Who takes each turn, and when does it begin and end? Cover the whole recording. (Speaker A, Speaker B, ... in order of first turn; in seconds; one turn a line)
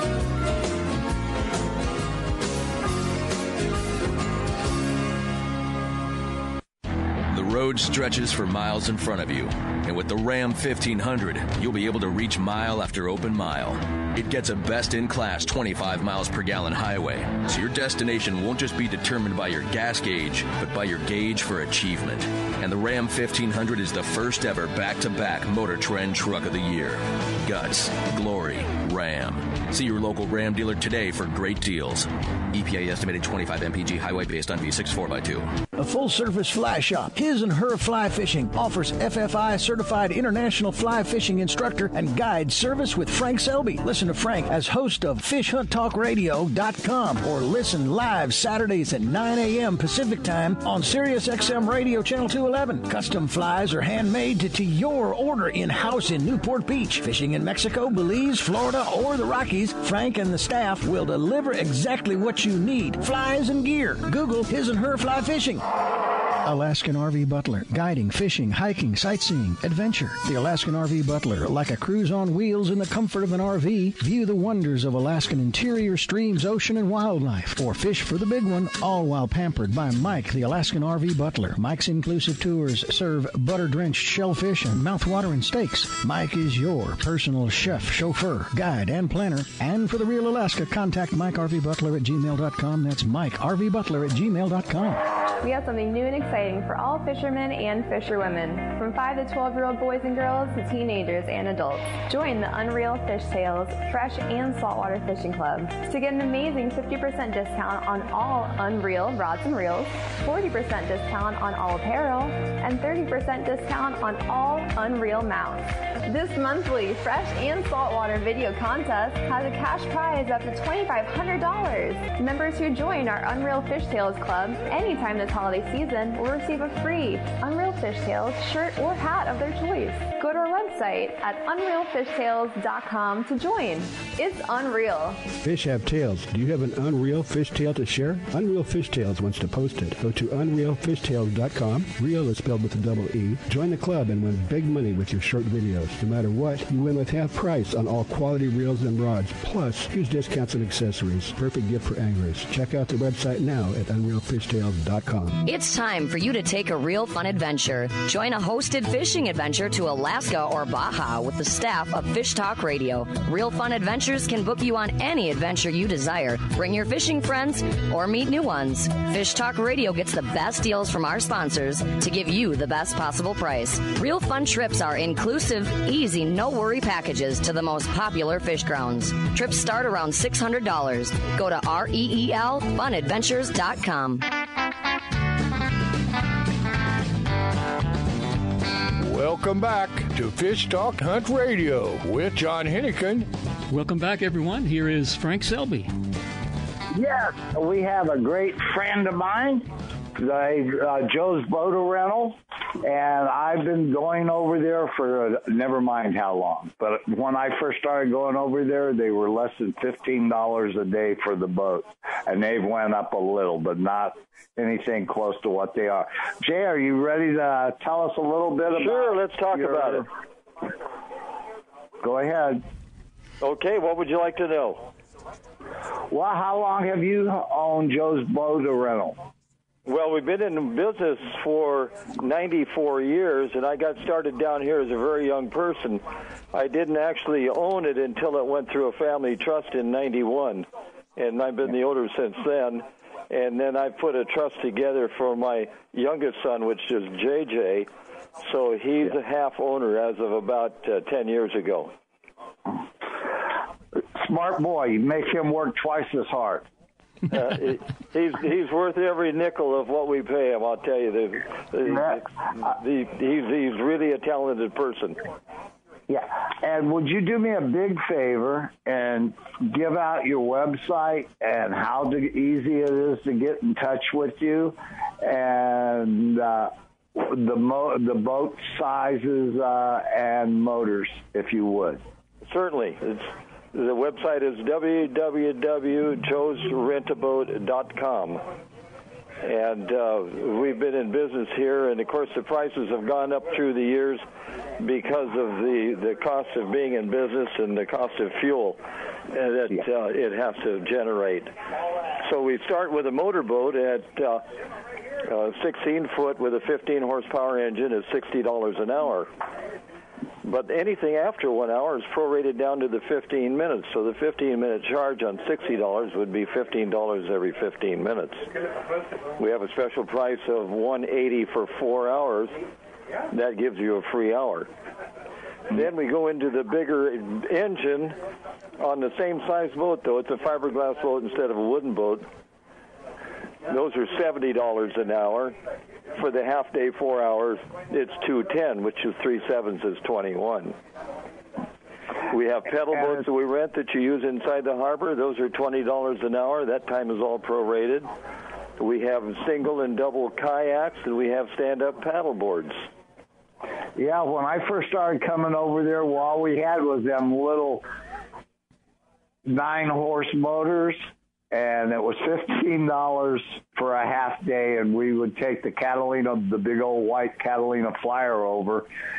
Speaker A: 7.3-35.5
Speaker B: 35.8-65.6
Speaker B: 66.4-95.0
Speaker C: 95.4-135.2
Speaker D: 135.4-155.4
Speaker E: 155.4-184.2
Speaker F: 189.0-193.3
Speaker G: 193.7-195.9
Speaker H: 196.9-220.1
Speaker I: 218.7-220.1
Speaker H: 222.0-222.6
Speaker I: 223.4-224.9
Speaker H: 226.1-229.2
Speaker I: 229.8-247.9
Speaker I: 248.4-251.9
Speaker H: 253.1-256.7
Speaker I: 257.3-265.2
Speaker H: 261.8-262.2
Speaker H: 266.1-282.0
Speaker I: 282.4-288.4
Speaker I: 289.4-294.2
Speaker I: 294.8-301.5
Speaker I: 302.2-304.4
Speaker I: 305.2-309.3
Speaker I: 310.4-318.5
Speaker I: 319.4-322.5
Speaker I: 323.3-324.7
Speaker I: 325.7-328.2
Speaker I: 328.8-332.2
Speaker I: 333.7-335.6
Speaker I: 336.1-340.8
Speaker I: 342.3-348.1
Speaker I: 348.8-352.8
Speaker H: 353.9-357.9
Speaker H: 359.4-368.9